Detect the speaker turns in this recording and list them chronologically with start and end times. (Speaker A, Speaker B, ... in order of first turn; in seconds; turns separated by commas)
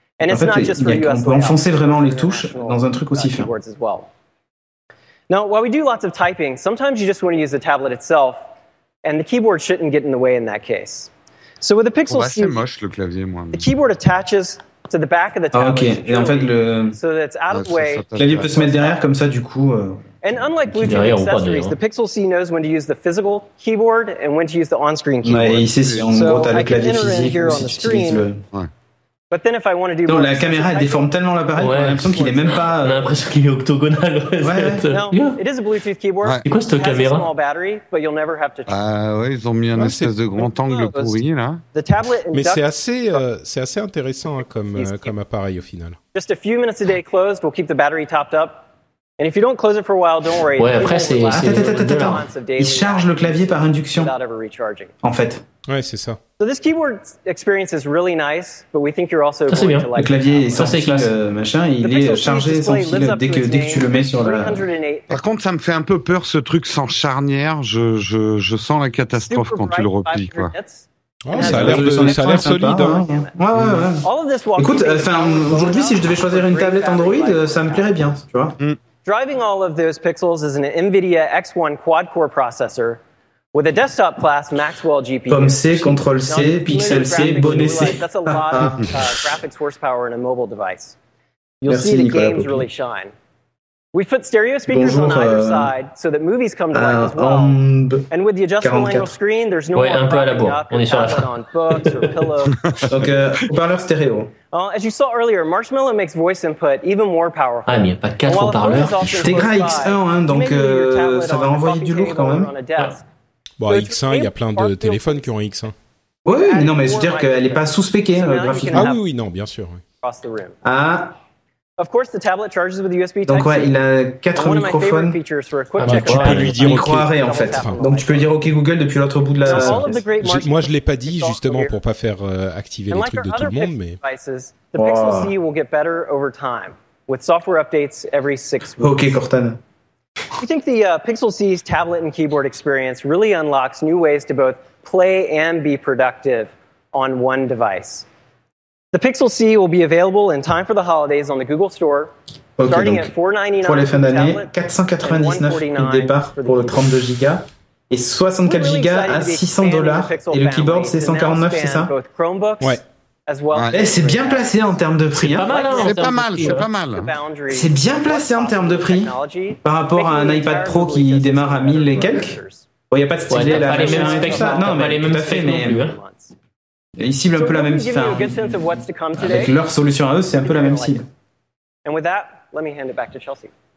Speaker A: 0.2-4.1, Speaker B: 0.3-3.5, Speaker A: 5.3-8.4, Speaker A: 9.0-12.6, Speaker C: 12.1-13.7, Speaker A: 13.5-19.0, Speaker B: 15.5-17.0, Speaker C: 17.5-18.7, Speaker B: 18.1-21.0, Speaker A: 20.2-28.3, Speaker D: 20.9-21.8, Speaker B: 25.2-28.4, Speaker C: 25.8-26.1, Speaker A: 29.3-31.1, Speaker B: 30.1-33.1, Speaker D: 31.6-35.4, Speaker B: 34.4-34.8, Speaker A: 34.9-38.8, Speaker D: 36.4-37.3, Speaker C: 38.7-41.6, Speaker E: 39.7-40.3, Speaker A: 40.4-41.2, Speaker A: 41.7-43.2, Speaker E: 42.3-46.0, Speaker A: 44.4-45.1, Speaker A: 46.1-48.7, Speaker A: 49.2-54.9, Speaker D: 50.5-52.2, Speaker B: 51.3-54.1, Speaker B: 55.0-55.4, Speaker E: 55.7-56.2, Speaker A: 56.4-60.7, Speaker D: 59.5-59.9, Speaker B: 59.9-64.6, Speaker D: 60.5-61.1, Speaker A: 61.8-65.2, Speaker C: 65.1-70.5, Speaker A: 69.3-73.5, Speaker E: 71.2-73.1, Speaker B: 71.3-78.5, Speaker A: 74.0-78.1, Speaker A: 79.0-83.0, Speaker A: 83.5-90.9, Speaker B: 85.3-89.0, Speaker C: 88.6-88.9, Speaker A: 91.6-93.1, Speaker B: 91.7-92.7, Speaker A: 93.9-102.8, Speaker B: 94.7-95.7, Speaker B: 96.7-98.1, Speaker B: 98.6-99.1, Speaker D: 99.7-101.8, Speaker C: 102.7-103.0, Speaker B: 102.9-104.3, Speaker A: 104.5-113.0, Speaker D: 107.7-109.5, Speaker B: 109.2-112.5, Speaker E: 113.6-115.7, Speaker A: 113.7-115.3, Speaker B: 116.2-118.9, Speaker A: 116.3-119.0, Speaker E: 118.7-119.8, Speaker A: 120.0-120.6, Speaker B: 120.6-121.1, Speaker A: 121.8-123.8, Speaker B: 123.2-125.2, Speaker A: 124.3-128.3, Speaker D: 125.8-126.5, Speaker E: 125.8-127.8, Speaker B: 126.2-130.0, Speaker A: 129.4-131.8, Speaker E: 129.5-134.0, Speaker A: 132.9-139.0, Speaker B: 134.7-135.3, Speaker B: 138.8-139.6, Speaker A: 140.3-148.0, Speaker A: 148.9-156.9, Speaker B: 152.6-161.9, Speaker A: 158.4-164.8, Speaker C: 163.5-163.8, Speaker B: 163.7-165.7, Speaker D: 165.2-166.7, Speaker A: 165.4-172.7, Speaker C: 165.7-167.1, Speaker B: 167.5-172.4, Speaker B: 172.9-175.8, Speaker D: 173.3-175.9, Speaker A: 173.3-176.3, Speaker B: 177.0-178.5, Speaker A: 177.3-179.6, Speaker B: 179.2-181.1, Speaker A: 180.4-181.0, Speaker A: 181.8-183.5